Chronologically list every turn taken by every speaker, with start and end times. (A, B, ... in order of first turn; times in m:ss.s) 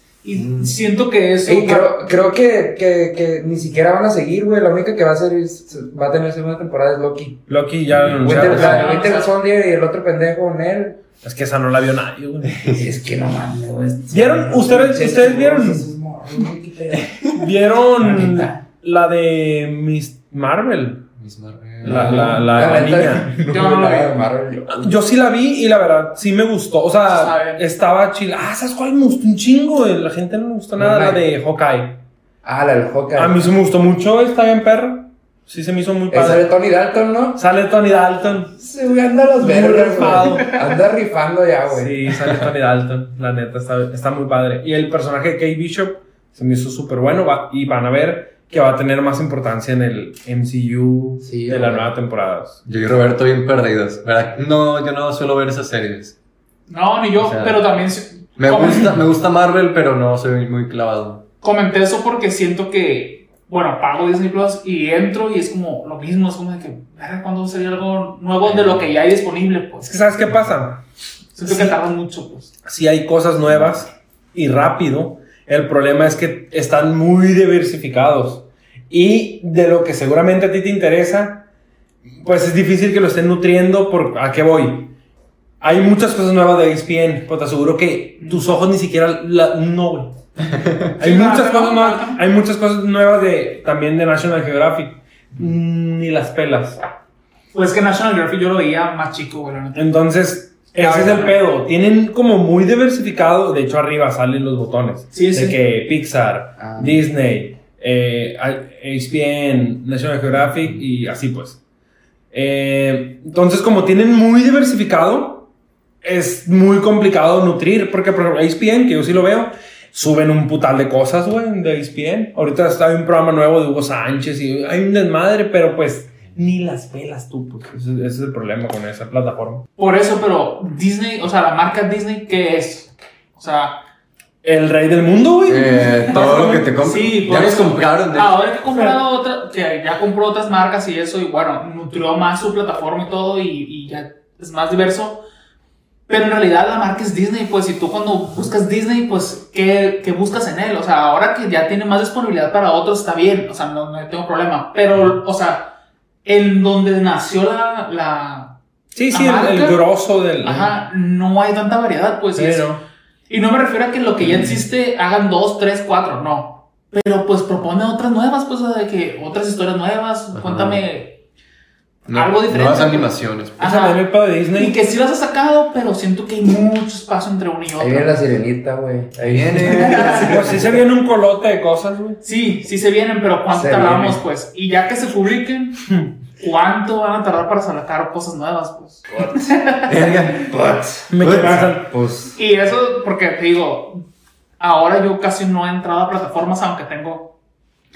0:00.2-0:02.0 A
0:00.3-0:00.7 B
0:01.4-0:07.5 C
0:07.5-0:09.1 D
0:07.9-0:08.7 B
0:08.2-0:11.0 C
0:08.4-0:09.3 A
0:11.2-0:12.9 D
0:12.5-0:12.8 B
0:12.8-0:17.4 C
0:14.1-0:15.9 D
0:17.3-0:21.0 D
0:18.0-0:18.5 C
0:21.2-0:23.1 B
0:21.8-0:23.6 D
0:21.8-0:24.9 C
0:23.4-0:24.2 A
0:24.7-0:32.0 D
0:27.0-0:27.6 A
0:30.7-0:31.2 C
0:32.4-0:33.4 C
0:33.1-0:36.4 D
0:36.1-0:37.4 C
0:37.4-0:38.6 D
0:38.6-0:42.1 C
0:39.4-0:40.6 D
0:41.7-0:52.6 D
0:51.2-0:51.9 C
0:52.6-0:56.1 B
0:56.7-0:59.0 A
0:57.2-0:57.6 B
0:58.4-1:01.2 B
1:01.4-1:09.9 A
1:08.4-1:08.8 B
1:09.8-1:10.8 D
1:11.4-1:12.6 A
1:11.4-1:11.8 D
1:12.6-1:21.4 D
1:22.2-1:24.9 D
1:25.6-1:30.2 D
1:28.2-1:28.4 A
1:30.4-1:30.9 B
1:31.0-1:32.2 A
1:31.0-1:36.8 D
1:37.5-1:39.8 A
1:39.7-1:51.6 D
1:40.8-1:41.4 C
1:45.1-1:45.6 A
1:46.6-1:47.0 C
1:52.3-1:55.5 D
1:56.0-2:09.6 D
2:09.8-2:13.8 A
2:14.4-2:16.4 D
2:15.5-2:18.4 B
2:15.9-2:25.2 A
2:26.1-2:38.5 A
2:38.9-2:40.7 D
2:39.1-2:39.8 A
2:40.4-2:42.7 A
2:42.3-2:42.8 D
2:43.3-2:51.2 A
2:44.2-2:44.6 B
2:50.3-2:50.8 B
2:52.1-2:53.6 B
2:52.1-2:58.2 A
2:53.6-2:54.8 D
2:57.8-3:00.8 C
2:59.2-3:00.6 B
2:59.7-3:00.4 A
3:00.2-3:02.2 D
3:02.2-3:10.2 A
3:03.5-3:04.2 C
3:09.2-3:09.4 C
3:09.8-3:10.5 B
3:10.4-3:12.4 C
3:11.1-3:11.9 D
3:11.2-3:11.6 B
3:12.4-3:14.0 A
3:14.6-3:17.3 A